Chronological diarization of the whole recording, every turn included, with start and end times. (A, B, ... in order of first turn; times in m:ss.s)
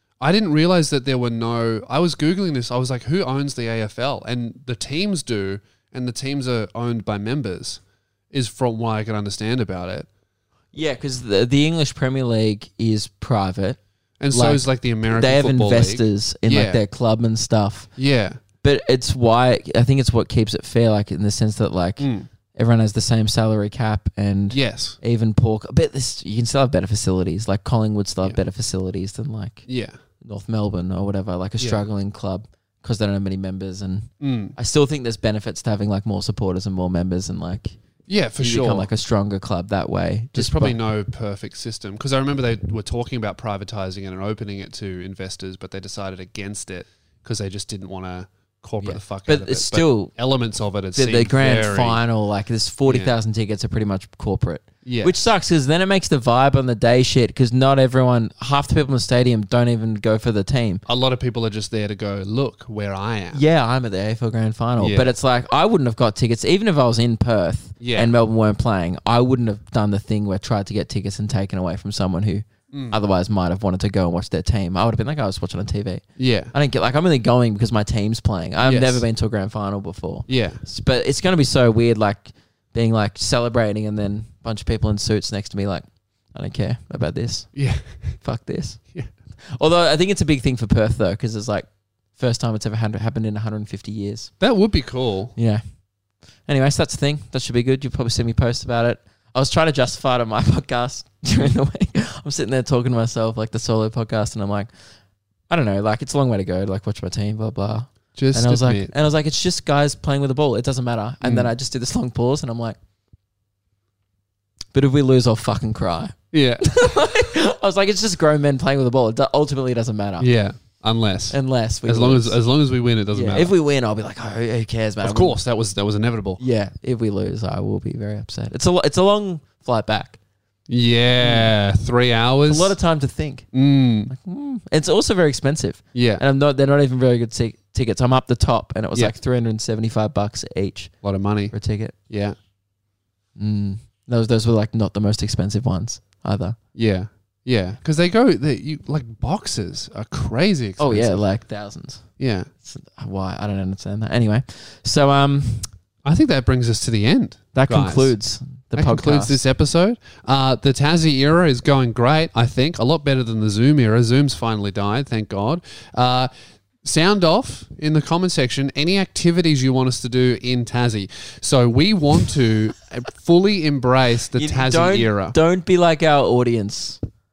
0:00.2-0:10.1 A
0:10.7-0:13.8 B
0:14.2-0:16.8 A
0:14.3-0:17.9 B
0:18.0-0:18.4 A
0:18.6-0:29.6 B
0:22.0-0:22.3 A
0:24.5-0:25.0 A
0:29.7-0:30.0 A
0:30.2-0:37.7 B
0:31.6-0:31.8 A
0:34.2-0:34.5 A
0:38.1-0:38.9 A
0:38.4-0:40.8 B
0:40.3-0:52.0 A
0:48.8-0:50.1 B
0:50.9-1:00.8 B
0:52.8-0:53.1 A
0:54.8-0:55.2 A
1:00.9-1:03.4 A
1:03.3-1:27.6 B
1:04.8-1:05.1 A
1:07.8-1:08.1 A
1:12.7-1:13.0 A
1:16.2-1:16.5 A
1:18.6-1:19.0 A
1:20.3-1:20.6 A
1:27.6-1:27.8 A
1:28.2-1:28.8 B
1:29.5-1:31.6 B
1:32.2-1:34.3 B
1:34.4-1:35.3 A
1:35.4-1:35.6 B
1:36.5-1:44.7 B
1:45.5-1:52.8 B
1:48.1-1:48.9 A
1:51.2-1:51.5 A
1:54.7-2:00.3 B
1:56.3-1:57.0 A
2:00.2-2:03.5 A
2:01.3-2:02.4 B
2:03.1-2:05.4 B
2:05.0-2:06.4 A
2:06.4-2:10.2 B
2:10.7-2:12.8 A
2:11.2-2:11.5 B
2:12.4-2:13.5 B
2:13.5-2:14.1 A
2:14.1-2:20.9 B
2:15.9-2:16.2 A
2:21.0-2:21.5 A
2:21.5-2:21.9 B
2:22.1-2:22.4 A
2:23.4-2:26.6 B
2:26.8-2:31.2 A
2:30.8-2:32.1 B
2:32.2-2:32.5 A
2:32.6-2:35.7 B
2:36.0-2:38.1 A
2:37.5-2:39.4 B
2:38.7-2:46.3 A
2:46.8-2:55.4 A
2:54.4-2:57.0 B